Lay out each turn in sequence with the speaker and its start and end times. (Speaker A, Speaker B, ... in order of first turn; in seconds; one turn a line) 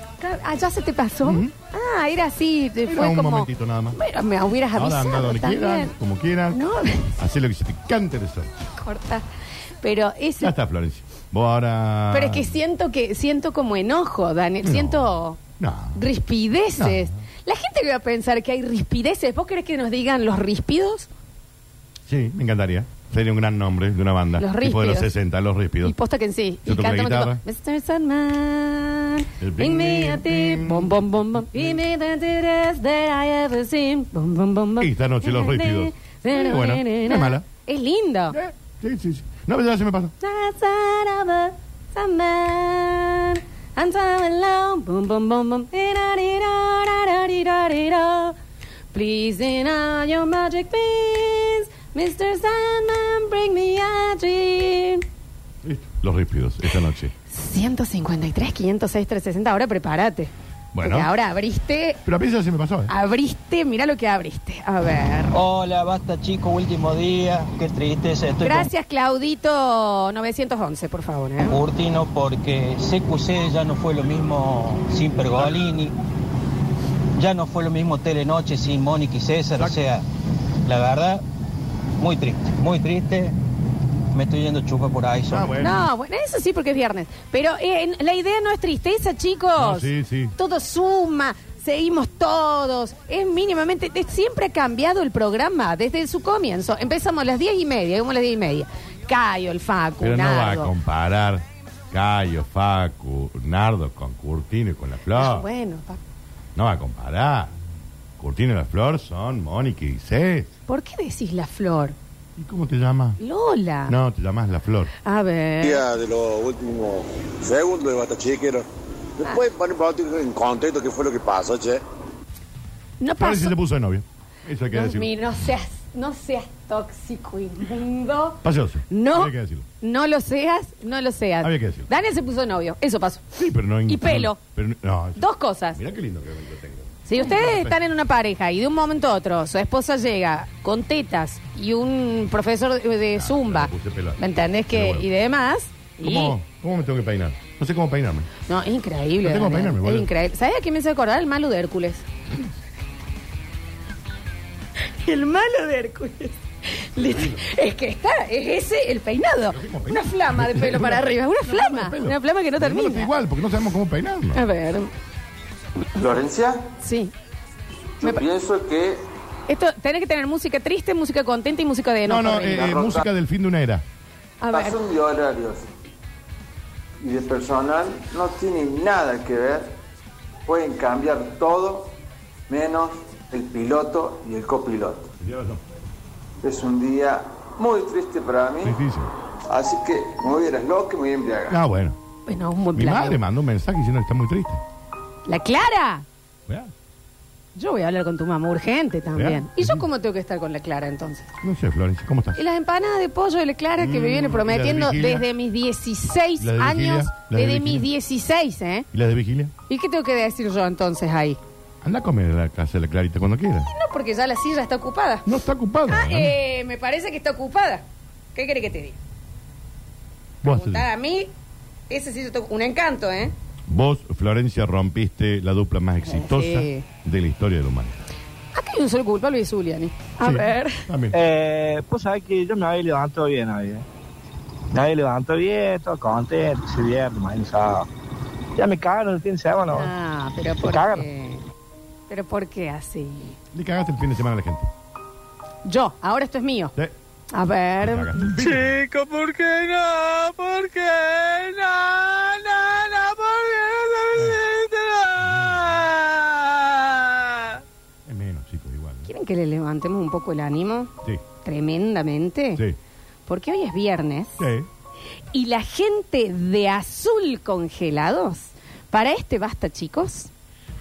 Speaker A: 0.2-5.9
Speaker B: 1.2-1.5
Speaker B: 2.9-4.0
Speaker B: 4.8-6.6
Speaker A: 6.5-7.1
Speaker B: 7.2-8.5
Speaker A: 8.8-9.2
Speaker A: 9.8-10.5
Speaker B: 10.4-12.6
Speaker A: 12.1-15.4
Speaker B: 14.7-16.1
Speaker A: 15.9-21.1
Speaker B: 16.8-17.2
Speaker B: 22.1-25.9
Speaker A: 24.4-25.1
Speaker A: 25.8-38.4
Speaker B: 26.6-27.4
Speaker B: 29.4-31.8
Speaker B: 34.8-37.5
Speaker B: 38.3-40.1
Speaker A: 40.2-48.4
Speaker A: 48.9-55.0
Speaker B: 55.6-57.1
Speaker A: 57.3-60.3
Speaker B: 60.7-61.1
Speaker A: 60.8-62.0
Speaker B: 62.0-62.9
Speaker A: 62.9-65.3
Speaker C: 65.3-68.7
Speaker A: 68.4-71.6
Speaker C: 71.5-75.9
Speaker C: 77.2-80.0
Speaker C: 80.6-81.2
Speaker C: 82.0-83.3
Speaker C: 84.1-85.5
Speaker B: 85.3-85.8
Speaker A: 85.6-100.7
Speaker B: 89.6-90.3
Speaker B: 100.0-105.5
Speaker A: 105.1-106.0
Speaker B: 106.6-107.5
Speaker B: 108.2-110.5
Speaker A: 110.7-111.9
Speaker B: 112.4-113.2
Speaker A: 113.2-113.9
Speaker B: 113.9-114.9
Speaker A: 115.0-115.8
Speaker D: 115.6-118.7
Speaker D: 119.2-121.8
Speaker A: 123.0-123.5
Speaker B: 123.2-125.1
Speaker A: 124.7-128.4
Speaker B: 128.4-129.7
Speaker A: 128.9-133.3
Speaker B: 131.4-131.9
Speaker B: 133.4-137.8
Speaker A: 133.9-134.4
Speaker A: 135.2-135.8
Speaker A: 137.1-146.3
Speaker B: 143.1-144.2
Speaker B: 144.7-145.1
Speaker B: 146.0-148.3
Speaker A: 148.5-152.0
Speaker B: 149.2-150.1
Speaker A: 155.0-163.1
Speaker B: 157.0-157.4
Speaker B: 159.5-164.4
Speaker A: 164.3-164.9
Speaker E: 166.0-166.7
Speaker A: 166.8-167.1
Speaker E: 168.0-169.1
Speaker A: 169.5-172.8
Speaker B: 172.1-173.8
Speaker E: 172.5-173.0
Speaker A: 174.4-174.8
Speaker E: 174.5-175.7
Speaker E: 177.0-179.8
Speaker E: 180.5-181.9
Speaker E: 182.5-185.1
Speaker B: 185.2-185.6
Speaker E: 186.4-188.8
Speaker B: 188.6-189.1
Speaker E: 189.5-191.6
Speaker B: 191.5-192.0
Speaker A: 192.3-193.2
Speaker B: 192.8-194.6
Speaker A: 195.2-196.0
Speaker A: 197.5-201.3
Speaker B: 199.2-199.8
Speaker B: 201.4-202.4
Speaker A: 202.3-208.9
Speaker B: 203.8-205.3
Speaker B: 206.4-207.9
Speaker B: 208.9-209.5
Speaker A: 209.7-211.4
Speaker B: 211.8-213.7
Speaker A: 213.7-215.3
Speaker B: 215.2-216.3
Speaker A: 215.9-217.8
Speaker A: 218.3-219.0
Speaker B: 220.4-220.9
Speaker A: 220.4-221.3
Speaker A: 221.9-223.3
Speaker B: 223.7-228.0
Speaker A: 226.0-226.8
Speaker A: 228.5-230.8
Speaker B: 230.2-231.2
Speaker F: 231.1-233.8
Speaker F: 234.7-237.9
Speaker F: 238.6-239.9
Speaker A: 239.7-241.4
Speaker F: 240.6-241.1
Speaker A: 242.1-243.4
Speaker B: 243.5-244.7
Speaker A: 245.7-246.7
Speaker A: 247.3-248.1
Speaker B: 247.8-248.8
Speaker B: 254.2-254.4
Speaker B: 255.2-255.9
Speaker B: 258.1-259.1
Speaker A: 259.1-260.9
Speaker A: 261.4-262.6
Speaker A: 263.3-264.4
Speaker B: 264.4-264.7
Speaker A: 265.3-270.3